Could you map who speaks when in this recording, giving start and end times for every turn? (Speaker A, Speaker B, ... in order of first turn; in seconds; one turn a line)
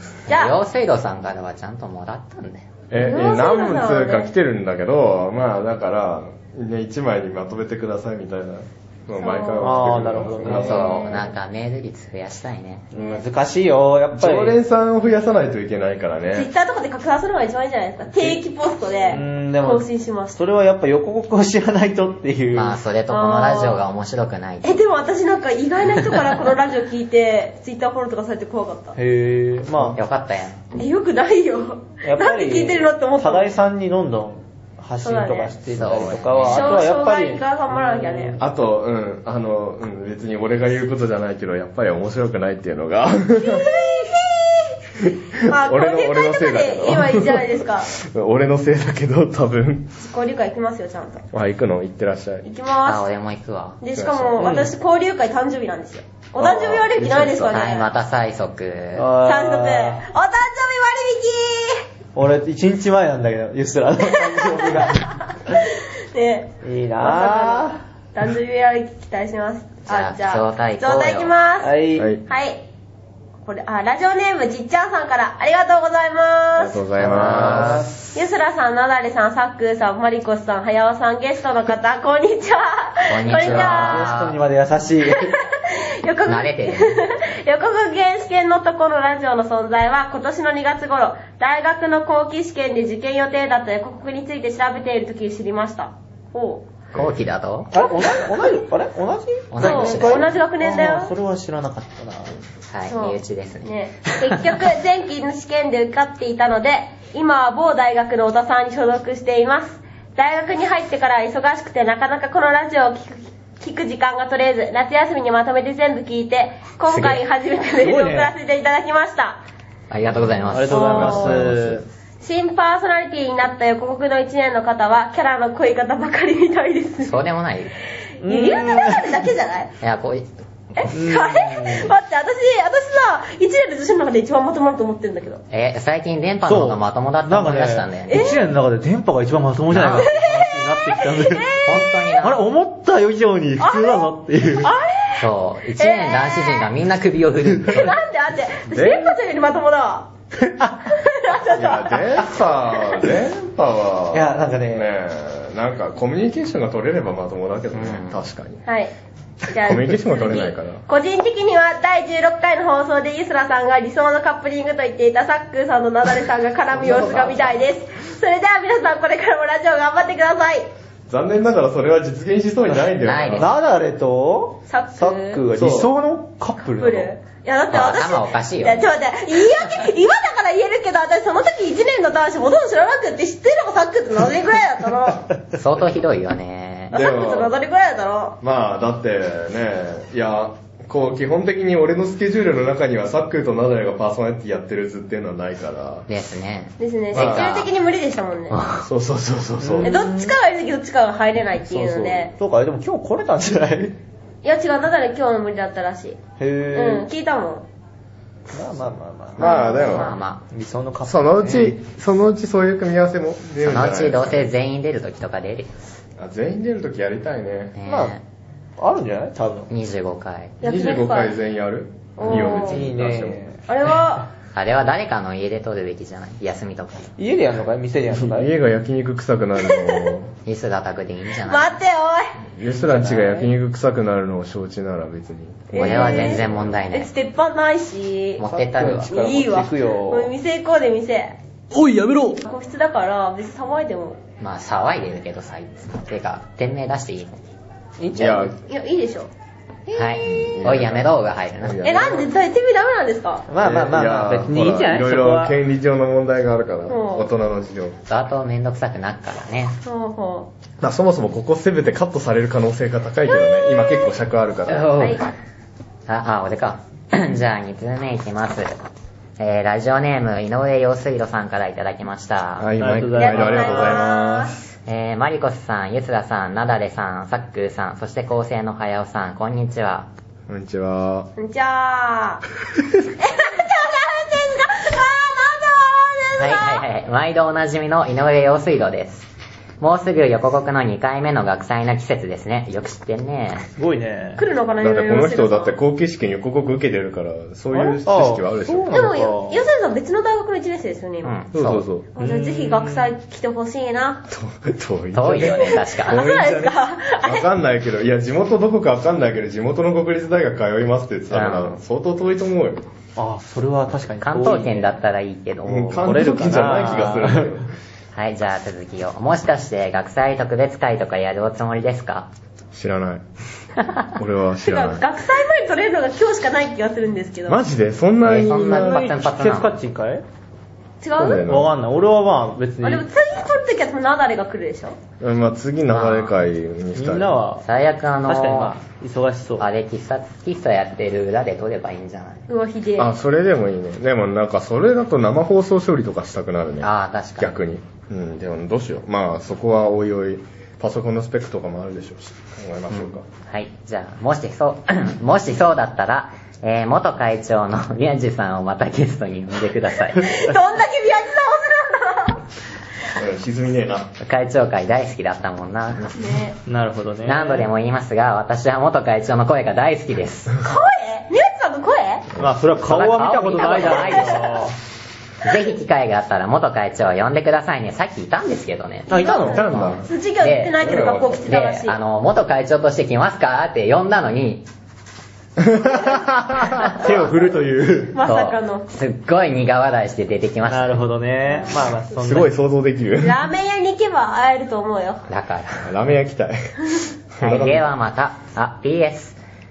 Speaker A: 0.3-2.7
Speaker B: 0.3-0.6
Speaker C: 2.9-11.0
Speaker B: 2.9-4.3
Speaker B: 9.2-11.3
Speaker D: 9.6-11.0
Speaker A: 10.4-12.9
Speaker D: 12.9-14.6
Speaker C: 14.1-16.5
Speaker B: 16.3-20.4
Speaker D: 19.1-22.8
Speaker A: 22.5-24.8
Speaker B: 23.1-23.8
Speaker B: 24.6-28.9
Speaker D: 28.9-30.0
Speaker A: 29.8-30.6
Speaker B: 30.7-33.5
Speaker D: 32.0-38.4
Speaker B: 35.0-35.5
Speaker A: 35.7-36.8
Speaker B: 36.4-38.4
Speaker C: 38.4-43.7
Speaker B: 43.4-47.9
Speaker C: 45.0-50.0
Speaker B: 50.0-51.2
Speaker C: 51.3-52.4
Speaker B: 52.4-53.0
Speaker A: 52.8-53.8
Speaker B: 53.8-57.9
Speaker C: 53.9-54.5
Speaker D: 54.4-54.7
Speaker C: 56.4-57.6
Speaker A: 57.5-59.1
Speaker D: 58.9-60.0
Speaker B: 59.2-61.9
Speaker D: 62.1-65.2
Speaker B: 64.3-72.6
Speaker D: 66.6-67.8
Speaker A: 69.9-71.3
Speaker D: 71.6-72.1
Speaker C: 72.0-72.2
Speaker B: 73.4-76.8
Speaker C: 76.5-78.0
Speaker A: 77.0-77.8
Speaker D: 77.0-78.0
Speaker B: 78.1-84.1
Speaker A: 83.1-84.4
Speaker D: 83.4-85.3
Speaker B: 85.2-96.7
Speaker A: 86.2-87.0
Speaker A: 96.9-97.7
Speaker D: 97.7-102.4
Speaker B: 97.8-98.5
Speaker A: 99.5-100.3
Speaker B: 99.6-101.1
Speaker A: 102.7-104.6
Speaker B: 102.9-119.4
Speaker A: 116.9-117.2
Speaker D: 117.8-118.3
Speaker A: 119.9-121.6
Speaker D: 120.5-121.8
Speaker B: 120.7-121.4
Speaker C: 121.0-121.7
Speaker B: 122.2-127.2
Speaker A: 127.0-127.7
Speaker D: 128.2-129.2
Speaker B: 128.2-129.7
Speaker A: 129.8-130.3
Speaker B: 130.8-135.4
Speaker D: 130.9-131.9
Speaker A: 135.5-138.4
Speaker D: 136.4-141.6
Speaker B: 138.1-138.4
Speaker A: 139.7-140.1
Speaker B: 139.9-141.8
Speaker A: 141.6-142.4
Speaker D: 142.2-144.7
Speaker B: 143.6-145.3
Speaker A: 145.2-148.0
Speaker B: 145.8-146.7
Speaker B: 147.6-150.1
Speaker C: 148.7-149.1
Speaker D: 150.4-151.0
Speaker B: 150.9-152.2
Speaker C: 151.5-158.6
Speaker D: 154.1-154.9
Speaker A: 157.7-158.2
Speaker B: 158.7-158.9
Speaker B: 159.5-170.7
Speaker C: 159.7-160.8
Speaker C: 166.7-167.6
Speaker C: 171.1-173.5
Speaker D: 172.7-177.1
Speaker A: 173.0-173.5
Speaker B: 174.7-175.4
Speaker C: 175.5-175.9
Speaker B: 176.8-185.3
Speaker A: 177.7-178.9
Speaker A: 185.5-186.9
Speaker C: 186.9-187.5
Speaker B: 186.9-188.4
Speaker C: 188.4-196.1
Speaker A: 196.1-197.7
Speaker B: 196.8-198.6
Speaker C: 197.1-197.6
Speaker A: 198.5-198.8
Speaker C: 198.8-199.9
Speaker D: 199.6-200.3
Speaker B: 199.8-202.3
Speaker D: 201.6-204.0
Speaker B: 204.4-206.2
Speaker D: 206.4-207.1
Speaker B: 206.7-207.7
Speaker D: 208.5-209.6
Speaker C: 209.4-210.2
Speaker B: 209.4-210.2
Speaker A: 209.4-210.4
Speaker D: 210.5-211.8
Speaker C: 211.1-214.5
Speaker A: 213.6-215.7
Speaker C: 216.2-217.8
Speaker A: 217.8-218.2
Speaker D: 217.8-218.2
Speaker D: 218.8-219.7
Speaker A: 219.7-220.6
Speaker B: 220.6-221.3
Speaker C: 220.6-223.4
Speaker B: 222.2-222.8
Speaker D: 222.2-223.6
Speaker B: 223.7-224.3
Speaker A: 224.5-227.1
Speaker D: 227.2-228.5
Speaker C: 228.1-230.3
Speaker B: 229.6-230.1
Speaker A: 230.4-231.8
Speaker B: 231.4-232.4
Speaker C: 232.6-236.8
Speaker D: 232.7-233.5
Speaker B: 235.7-238.4
Speaker A: 235.8-237.1
Speaker A: 238.4-239.1
Speaker D: 238.4-240.3
Speaker B: 239.0-241.4
Speaker C: 241.8-242.3
Speaker B: 242.4-244.2
Speaker A: 244.4-247.4
Speaker D: 248.0-248.5
Speaker C: 248.2-248.5
Speaker B: 248.7-249.3
Speaker B: 249.9-250.4
Speaker A: 249.9-252.0
Speaker C: 250.2-252.3
Speaker B: 251.8-253.5
Speaker D: 253.5-255.6
Speaker C: 253.6-257.9
Speaker B: 256.9-257.3
Speaker A: 258.1-259.8
Speaker B: 259.8-260.5
Speaker C: 260.8-264.9
Speaker B: 263.3-263.9
Speaker A: 264.7-265.3
Speaker B: 265.0-265.2
Speaker A: 266.1-268.7
Speaker A: 269.4-272.7
Speaker C: 272.6-274.7
Speaker D: 272.8-274.0
Speaker B: 273.2-274.5
Speaker A: 274.9-280.1
Speaker C: 280.5-281.3
Speaker B: 281.4-282.4
Speaker B: 283.2-286.8
Speaker A: 286.4-289.3
Speaker A: 289.8-293.6
Speaker D: 293.8-294.4
Speaker B: 294.4-295.7
Speaker C: 294.8-299.1
Speaker D: 297.7-299.7
Speaker B: 298.9-301.4
Speaker A: 301.2-301.8
Speaker C: 301.5-302.1
Speaker B: 302.1-304.2
Speaker D: 302.2-303.1
Speaker C: 304.3-312.9
Speaker A: 305.1-306.3
Speaker B: 305.4-307.5
Speaker A: 311.3-311.8
Speaker D: 313.1-314.9
Speaker A: 314.2-316.3
Speaker C: 315.6-317.7
Speaker D: 316.0-317.6
Speaker A: 318.1-322.3
Speaker C: 322.7-323.2
Speaker C: 324.1-325.0
Speaker B: 324.6-327.6
Speaker C: 327.5-329.1
Speaker A: 328.2-329.7
Speaker D: 328.4-330.2
Speaker B: 331.0-331.4
Speaker C: 331.1-331.7
Speaker D: 331.4-333.1
Speaker B: 332.8-335.0
Speaker C: 335.2-337.4
Speaker A: 335.9-336.4
Speaker D: 336.9-337.7
Speaker A: 337.6-338.8
Speaker D: 338.2-339.7
Speaker A: 339.6-342.4
Speaker B: 342.5-343.1
Speaker C: 343.0-353.2
Speaker A: 346.8-347.5
Speaker A: 352.9-360.5
Speaker B: 360.1-362.4
Speaker C: 363.1-364.1
Speaker A: 364.2-366.2
Speaker B: 366.1-366.6
Speaker D: 366.6-367.7
Speaker A: 367.2-370.5
Speaker B: 370.6-372.3
Speaker D: 372.4-374.8
Speaker A: 372.8-374.7
Speaker B: 373.7-374.4
Speaker A: 375.4-384.6
Speaker D: 379.1-379.6
Speaker B: 379.1-382.0
Speaker C: 379.5-380.1
Speaker C: 380.8-381.4
Speaker C: 385.6-387.1
Speaker A: 386.8-387.3
Speaker D: 386.9-388.2
Speaker B: 388.1-388.9
Speaker A: 388.2-391.0
Speaker D: 390.7-392.5
Speaker C: 392.1-393.4
Speaker B: 393.2-395.2
Speaker A: 395.3-395.9
Speaker C: 395.8-397.8
Speaker A: 397.4-399.4